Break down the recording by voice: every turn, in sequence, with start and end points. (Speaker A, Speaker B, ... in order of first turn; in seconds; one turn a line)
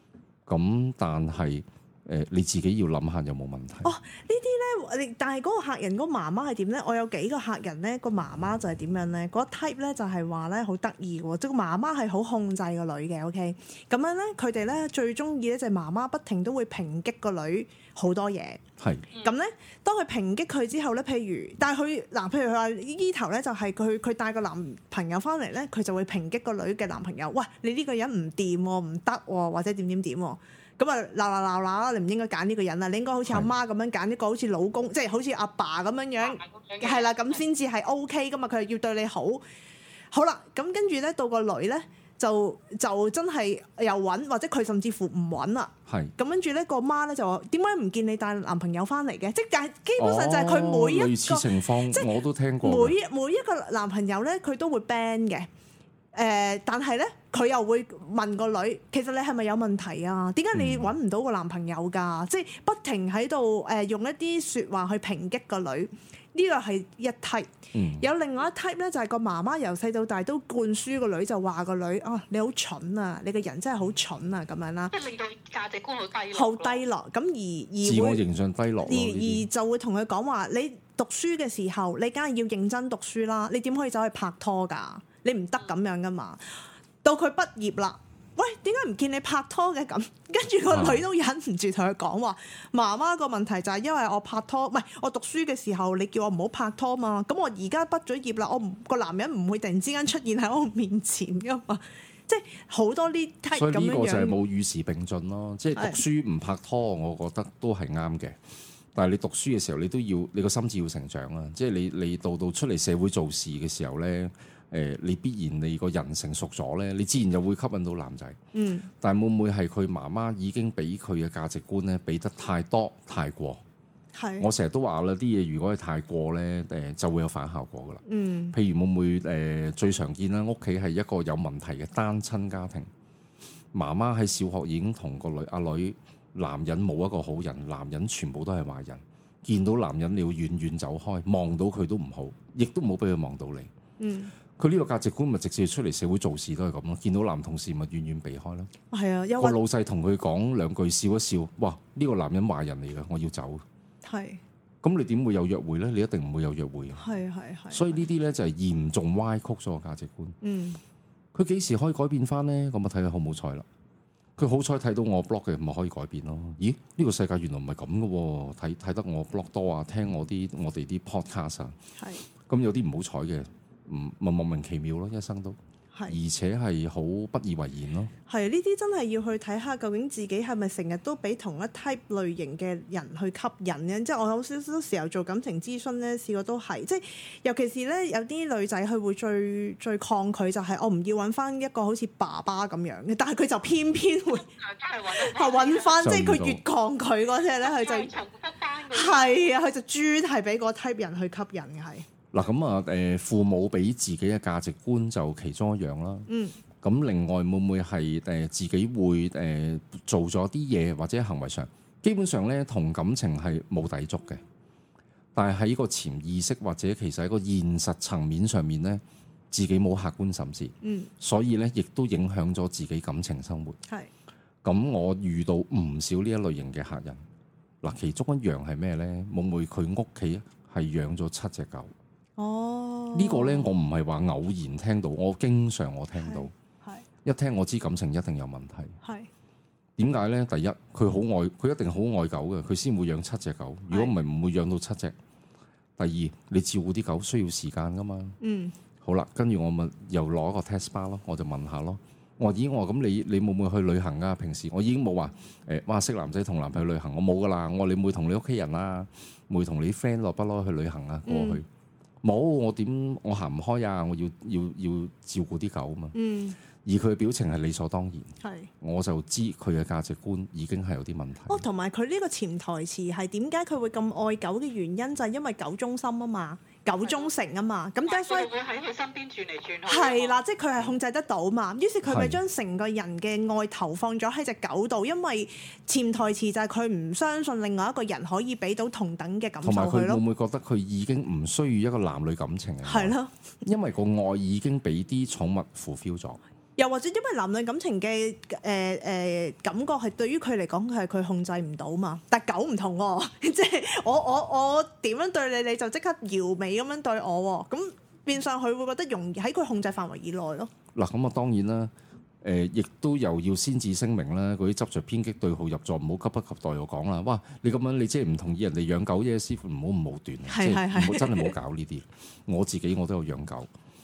Speaker A: 0.5-3.9
Speaker B: 3.8-18.6
Speaker A: 18.8-19.0
Speaker B: 19.2-39.4
Speaker C: 36.2-37.4
Speaker B: 40.1-52.1
Speaker A: 45.9-46.1
Speaker A: 50.0-53.0
Speaker B: 52.6-55.5
Speaker B: 56.1-74.9
Speaker A: 60.5-60.9
Speaker A: 67.7-68.1
Speaker C: 74.9-76.8
Speaker B: 76.3-78.2
Speaker A: 77.8-79.5
Speaker B: 78.8-104.3
Speaker A: 90.7-91.0
Speaker A: 103.5-108.4
Speaker B: 105.7-106.0
Speaker A: 108.9-118.4
Speaker B: 118.5-118.9
Speaker A: 119.0-123.6
Speaker B: 124.1-124.5
Speaker A: 124.4-128.0
Speaker B: 128.0-128.6
Speaker A: 128.5-132.9
Speaker A: 133.7-143.7
Speaker B: 144.0-144.3
Speaker A: 144.6-148.7
Speaker B: 148.9-149.6
Speaker A: 149.4-153.6
Speaker B: 154.0-154.4
Speaker A: 154.8-157.0
Speaker B: 157.0-158.0
Speaker A: 157.7-160.4
Speaker B: 160.4-160.8
Speaker A: 161.3-163.7
Speaker A: 164.4-171.7
Speaker B: 172.0-172.2
Speaker A: 172.5-178.1
Speaker B: 178.3-194.5
Speaker C: 194.5-196.0
Speaker B: 195.1-198.1
Speaker A: 196.0-196.6
Speaker C: 197.6-199.5
Speaker B: 198.9-202.1
Speaker A: 202.3-206.3
Speaker B: 206.3-206.6
Speaker A: 206.8-214.4
Speaker A: 215.3-223.8
Speaker B: 220.8-221.1
Speaker A: 224.6-227.2
Speaker A: 227.8-231.9
Speaker B: 232.4-233.7
Speaker A: 233.1-236.5
Speaker B: 236.1-237.1
Speaker A: 237.2-238.9
Speaker B: 239.0-239.3
Speaker A: 240.0-245.1
Speaker B: 243.9-244.1
Speaker A: 246.0-248.3
Speaker B: 248.4-248.7
Speaker A: 249.0-261.6
Speaker B: 261.3-261.6
Speaker A: 262.2-266.1
Speaker B: 266.1-266.6
Speaker A: 266.8-271.6
Speaker B: 268.4-268.7
Speaker B: 271.5-278.5
Speaker C: 278.1-280.4
Speaker B: 279.9-290.2
Speaker A: 282.1-282.4
Speaker A: 289.6-296.4
Speaker B: 292.8-293.3
Speaker B: 296.8-310.7
Speaker A: 310.9-311.9
Speaker A: 312.4-323.7
Speaker B: 320.5-321.6